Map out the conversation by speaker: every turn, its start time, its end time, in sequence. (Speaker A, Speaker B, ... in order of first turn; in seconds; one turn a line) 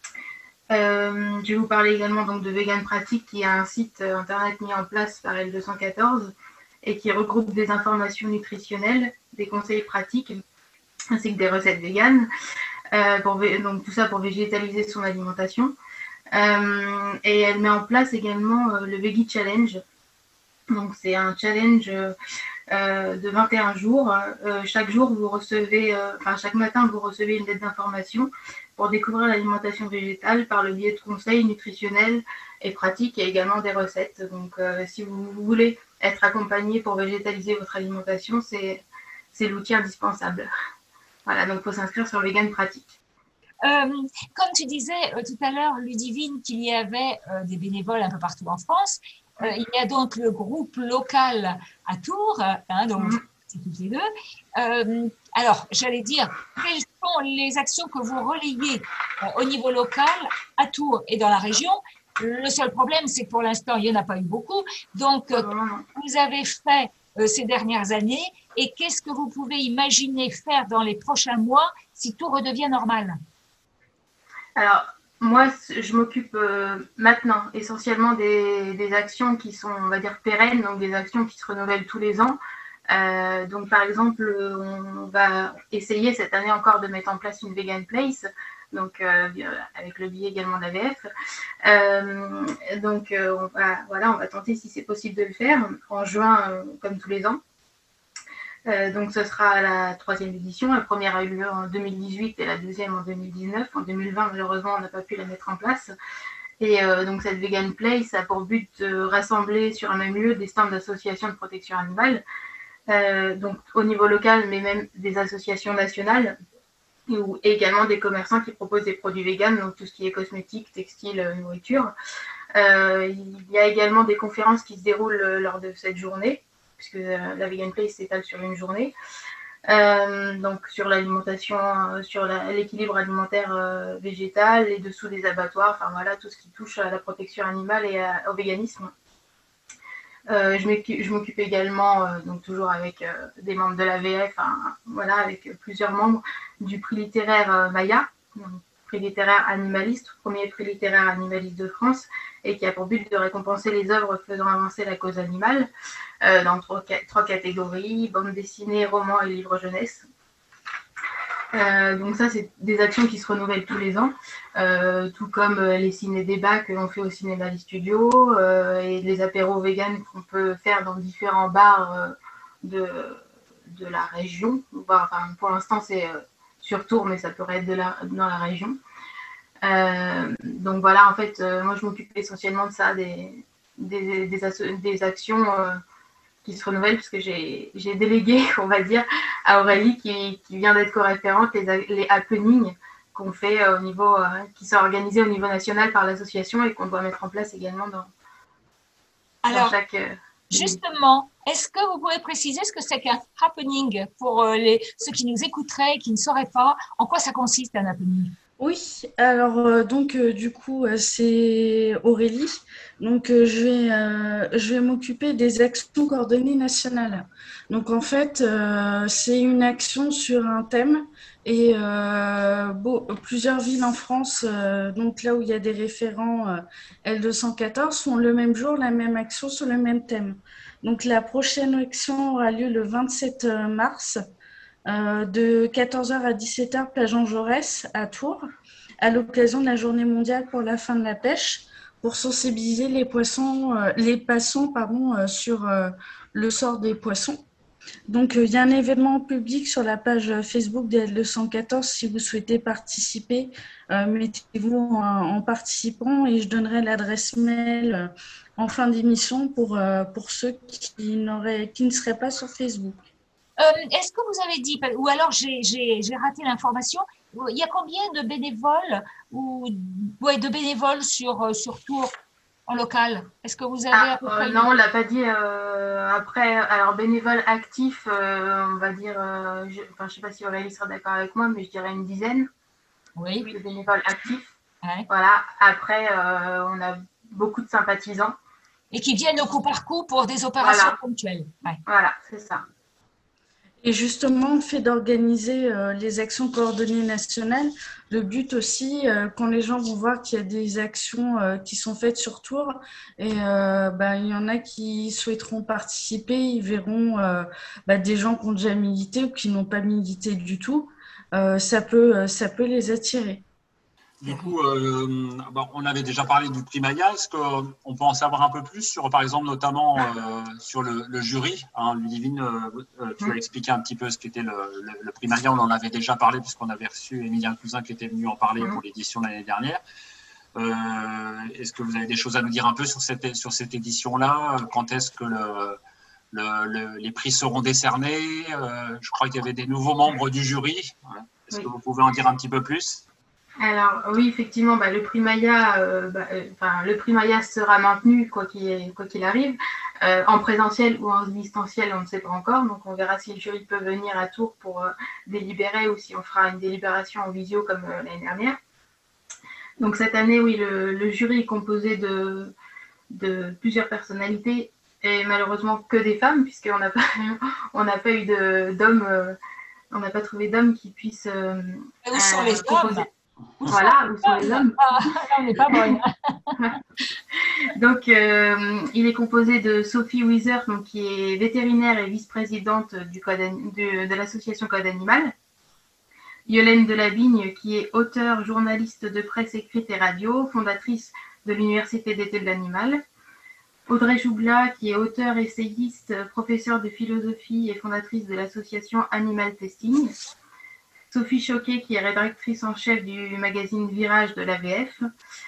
Speaker A: 0.7-10.4
Speaker A: 11.1-12.3
Speaker A: 12.9-15.8
Speaker A: 16.3-19.8
Speaker A: 20.7-22.1
Speaker A: 22.7-40.5
Speaker A: 41.3-42.9
Speaker B: 43.6-73.2
Speaker A: 65.3-65.9
Speaker A: 74.6-91.1
Speaker A: 91.6-97.4
Speaker A: 98.7-105.9
Speaker A: 106.6-112.2
Speaker A: 112.9-116.4
Speaker A: 117.1-121.9
Speaker A: 122.5-128.9
Speaker A: 129.7-138.9
Speaker A: 140.3-155.7
Speaker A: 156.2-160.1
Speaker A: 161.5-178.8
Speaker A: 179.6-185.8
Speaker A: 186.4-198.1
Speaker B: 199.4-199.8
Speaker A: 199.5-200.8
Speaker B: 200.5-208.3
Speaker C: 208.6-234.2
Speaker C: 234.9-238.5
Speaker C: 239.0-247.4
Speaker C: 248.1-263.0
Speaker B: 263.6-272.1
Speaker B: 272.7-274.8
Speaker A: 273.9-282.5
Speaker B: 283.2-283.5
Speaker A: 283.4-284.6
Speaker A: 285.1-288.4
Speaker B: 288.9-291.8
Speaker A: 290.6-291.0
Speaker A: 291.9-292.6
Speaker C: 293.8-313.4
Speaker D: 314.2-329.8
Speaker D: 330.6-335.8
Speaker D: 336.3-343.0
Speaker A: 343.6-358.6
Speaker A: 359.8-362.5
Speaker A: 363.1-369.4
Speaker A: 369.9-373.1
Speaker B: 372.1-373.1
Speaker B: 373.6-376.6
Speaker A: 373.7-375.1
Speaker A: 375.6-376.0
Speaker A: 377.7-385.3
Speaker A: 386.5-393.0
Speaker A: 393.9-400.1
Speaker A: 401.1-405.0